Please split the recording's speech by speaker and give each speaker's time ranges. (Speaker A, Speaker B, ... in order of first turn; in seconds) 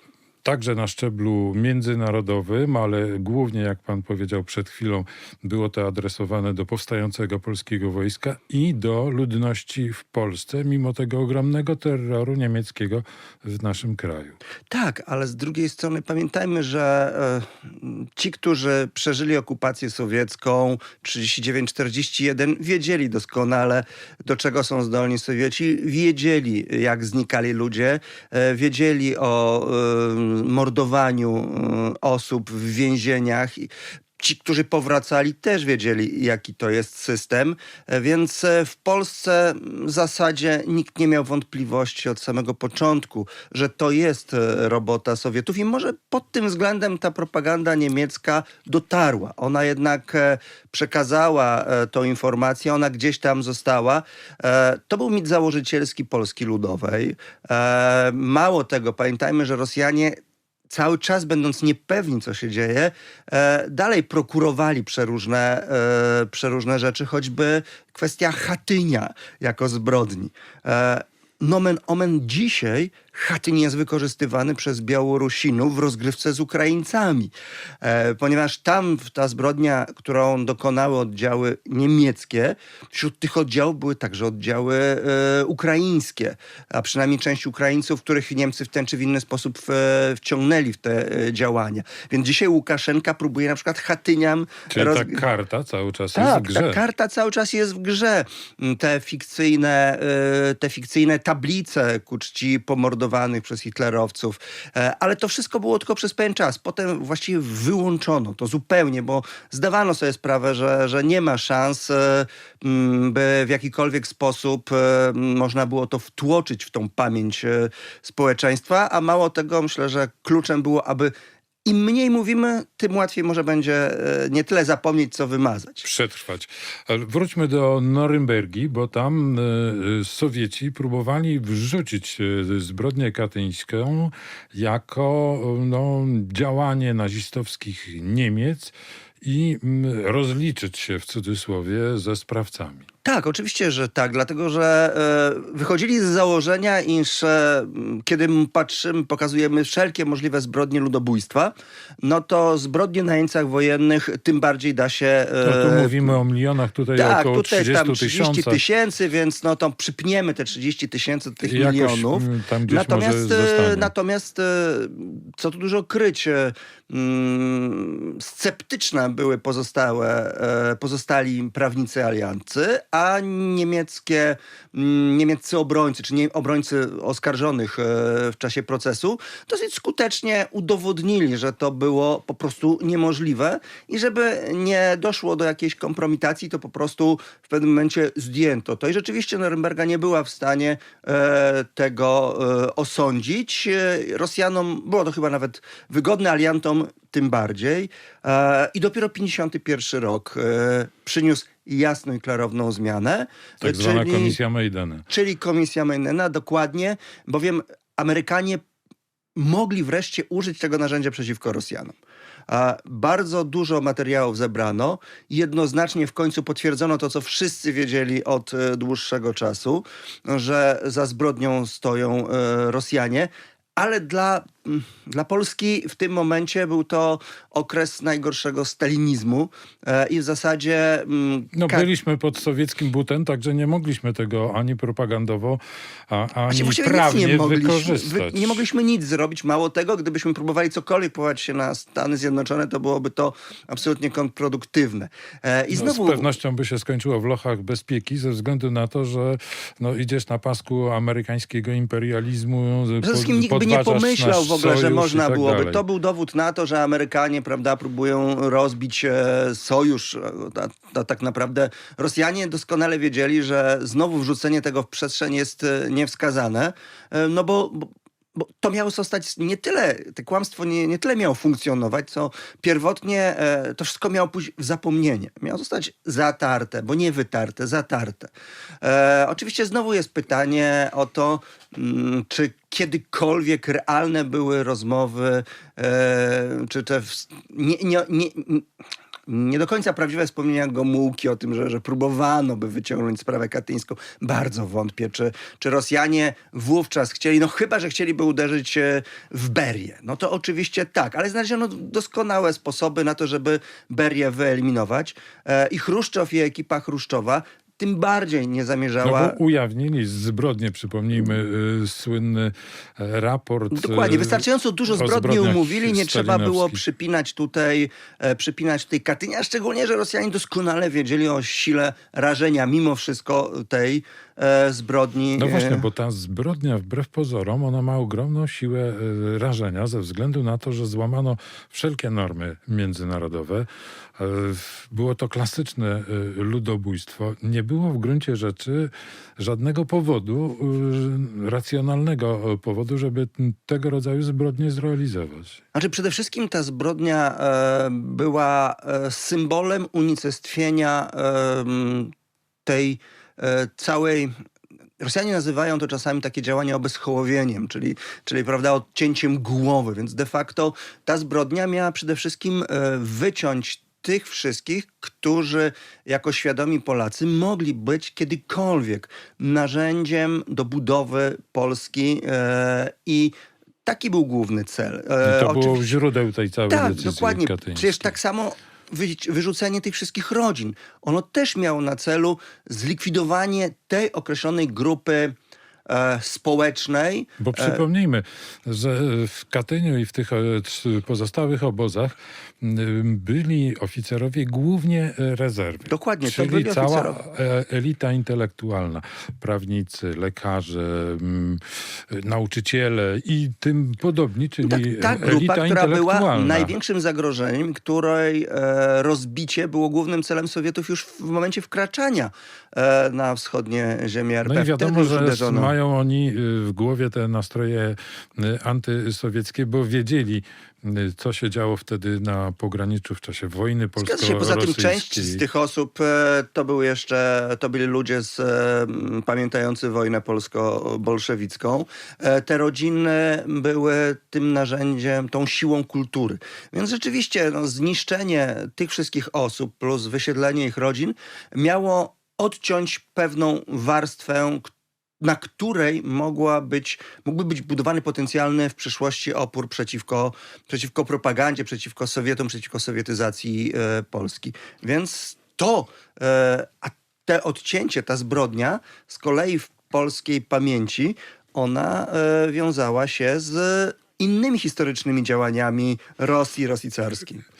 Speaker A: 0.4-14.4, 94.7-96.8, 125.8-142.9, 155.4-158.6, 161.4-163.9, 203.6-205.1, 231.5-238.6, 245.7-255.8, 309.0-316.8, 325.4-345.6, 375.2-378.1, 387.4-406.7, 414.4-425.4
Speaker B: 14.7-60.2, 60.7-95.2, 96.2-121.1, 121.7-125.8, 143.1-156.2, 157.0-204.4, 205.1-208.6, 209.4-211.9, 212.5-231.9, 236.5-246.3, 253.0-278.3, 278.8-288.7, 289.3-309.4, 313.7-325.9, 345.8-352.1, 352.7-354.3, 355.0-373.3, 373.9-375.9, 376.7-385.4, 385.9-387.8, 395.9-397.2, 404.6-415.7, 424.0-444.7, 445.2-467.4